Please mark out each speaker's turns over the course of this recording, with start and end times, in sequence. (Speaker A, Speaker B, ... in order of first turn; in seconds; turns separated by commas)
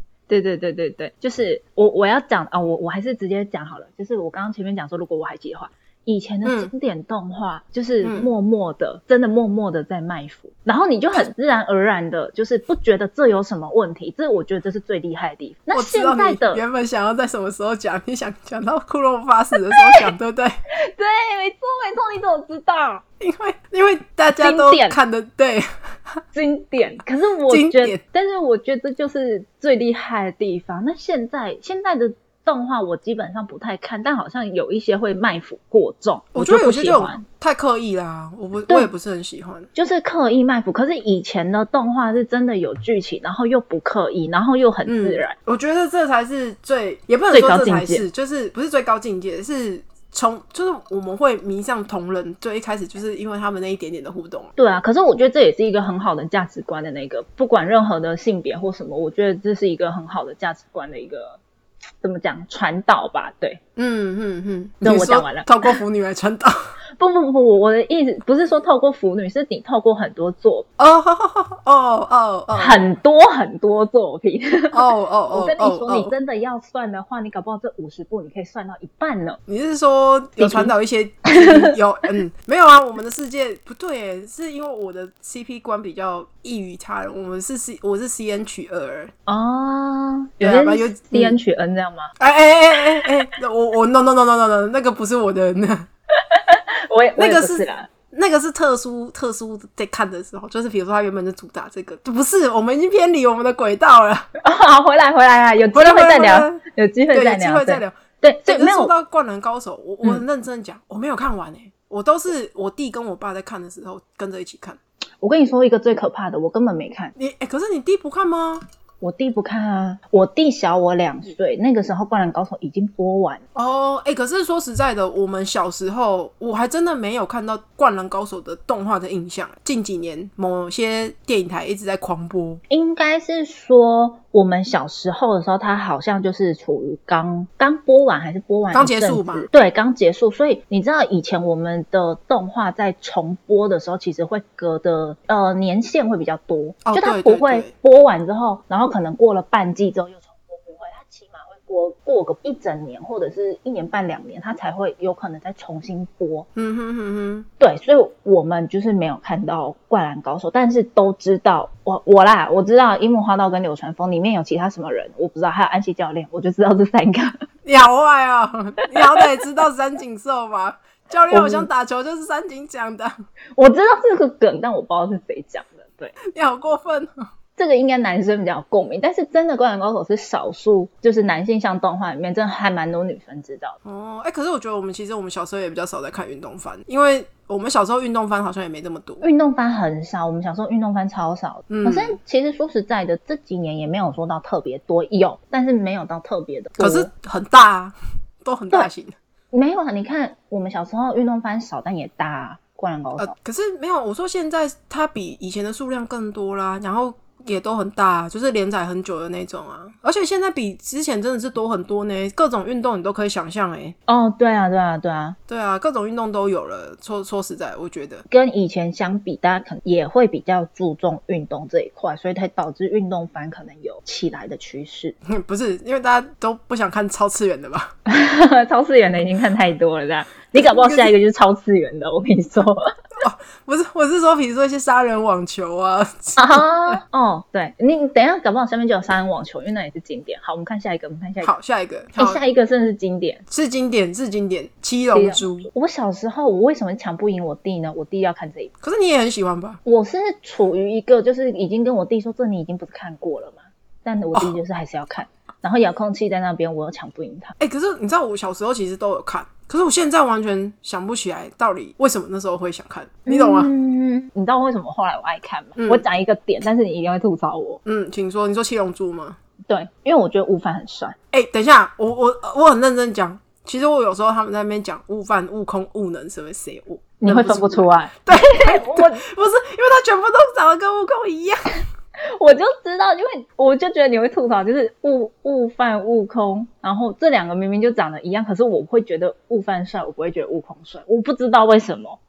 Speaker A: 0.3-16.6, Speaker B: 6.4-6.7, Speaker B: 8.0-8.3, Speaker B: 15.7-20.6, Speaker A: 19.8-20.1, Speaker A: 20.7-23.0, Speaker B: 23.2-26.2, Speaker A: 24.4-25.0, Speaker A: 26.3-37.2, Speaker B: 27.5-28.0, Speaker B: 36.3-39.7, Speaker A: 39.8-45.3, Speaker B: 44.9-54.5, Speaker A: 47.3-48.0, Speaker A: 54.6-61.4, Speaker A: 62.0-63.6, Speaker B: 63.8-66.7, Speaker A: 64.8-65.8, Speaker A: 67.0-70.7, Speaker B: 70.8-72.8, Speaker A: 72.5-79.4, Speaker B: 74.7-76.1, Speaker B: 79.5-89.1, Speaker A: 80.4-80.7, Speaker A: 81.3-81.7, Speaker A: 89.3-92.1, Speaker B: 90.4-91.4, Speaker B: 92.2-95.9, Speaker A: 96.2-97.9, Speaker B: 97.2-104.3, Speaker A: 104.4-108.9, Speaker B: 105.7-114.8, Speaker A: 115.2-117.1, Speaker B: 117.2-118.6, Speaker A: 119.0-123.4, Speaker B: 123.5-132.6, Speaker A: 132.7-156.5, Speaker B: 138.7-139.5, Speaker B: 146.8-147.7, Speaker B: 156.6-157.5, Speaker A: 157.6-167.3, Speaker B: 167.7-173.1, Speaker A: 171.3-171.7, Speaker A: 173.6-176.2, Speaker B: 176.3-177.1, Speaker A: 177.6-183.8, Speaker B: 183.8-189.2, Speaker A: 189.2-197.1, Speaker B: 191.7-192.2, Speaker B: 196.8-199.1, Speaker A: 199.5-203.3, Speaker B: 203.2-213.9, Speaker A: 214.1-215.4, Speaker B: 215.5-218.2, Speaker A: 218.3-225.2, Speaker B: 225.3-227.9, Speaker A: 228.1-232.9, Speaker B: 230.6-231.1, Speaker B: 233.2-237.0, Speaker A: 236.4-241.5, Speaker B: 241.4-242.4, Speaker A: 242.2-243.4, Speaker B: 243.5-245.7, Speaker A: 245.1-248.7, Speaker B: 248.8-249.8, Speaker A: 249.8-257.5, Speaker B: 257.6-263.7, Speaker A: 263.3-267.8, Speaker B: 265.8-266.0, Speaker B: 267.8-269.4, Speaker A: 269.7-271.1, Speaker B: 271.3-281.8, Speaker A: 277.2-279.2, Speaker A: 282.3-292.2